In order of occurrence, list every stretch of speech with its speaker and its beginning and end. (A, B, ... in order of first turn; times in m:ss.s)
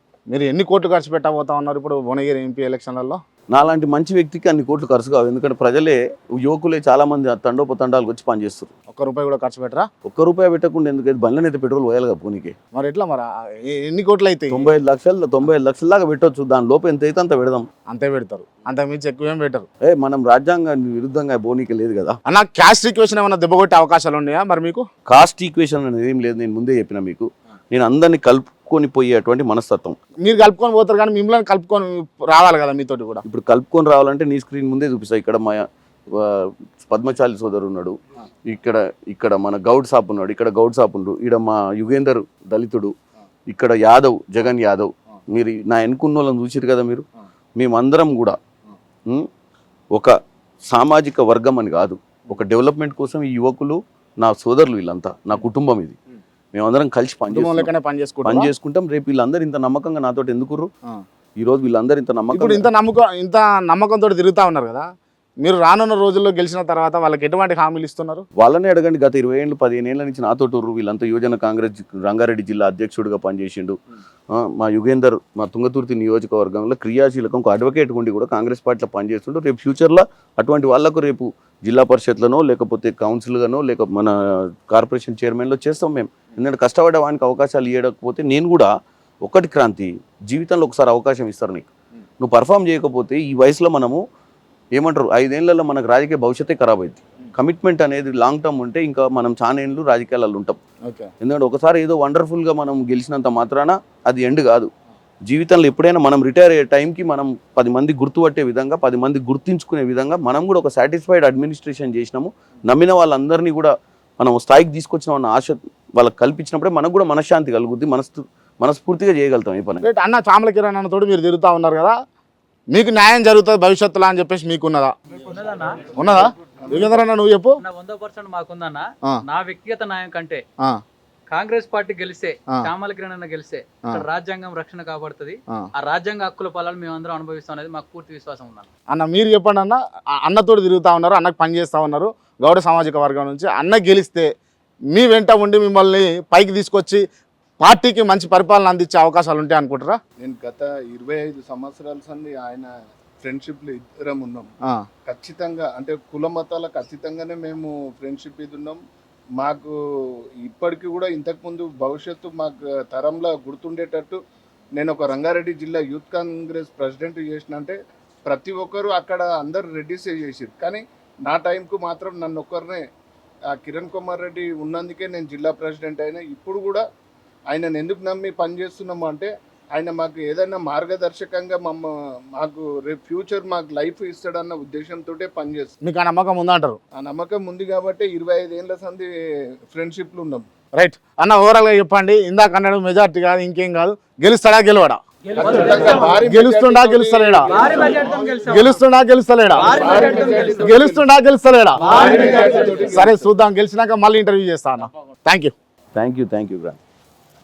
0:00.3-0:03.2 A
0:03.5-0:08.7 B
0:08.9-0:09.9 A
0:10.0-0:12.6 B
0:12.8-0:14.7 A
0:14.5-0:17.7 B
0:17.9-0:19.7 A
0:19.8-0:22.2 B
0:22.3-0:24.9 A
0:25.1-0:30.0 B
0:30.2-0:33.2 A
0:33.2-0:42.9 B
0:43.5-0:47.1 B
0:47.6-0:48.4 B
0:50.7-0:56.0 B
0:56.5-0:57.7 B
0:57.3-0:58.5 A
0:58.2-1:00.7 B
1:01.4-1:02.7 B
1:02.3-1:04.9 A
1:05.4-1:08.3 A
1:08.4-1:13.8 B
1:14.3-1:28.7 B
1:29.2-1:34.0 B
1:34.8-1:40.6 B
1:41.2-1:44.7 B
1:45.3-1:59.8 B
1:59.8-2:02.0 A
2:02.7-2:04.9 A
2:05.1-2:05.9 C
2:06.0-2:07.6 A
2:07.6-2:10.4 C
2:11.3-2:18.7 C
2:18.9-2:24.3 A
2:24.9-2:27.0 A
2:27.6-2:30.0 A
2:30.2-2:34.5 D
2:35.1-2:38.8 D
2:39.4-2:44.2 D
2:44.8-2:52.9 D
2:53.5-2:56.8 D
2:57.5-3:05.8 D
3:05.8-3:06.8 A
3:07.0-3:10.5 D
3:10.8-3:15.0 A
3:15.4-3:18.0 D
3:16.2-3:17.5 A
3:17.6-3:18.7 C
3:18.5-3:19.8 A
3:19.7-3:20.6 C
3:19.7-3:21.0 D
3:20.6-3:22.0 A
3:21.8-3:23.3 D
3:22.9-3:25.5 A
3:25.9-3:26.8 B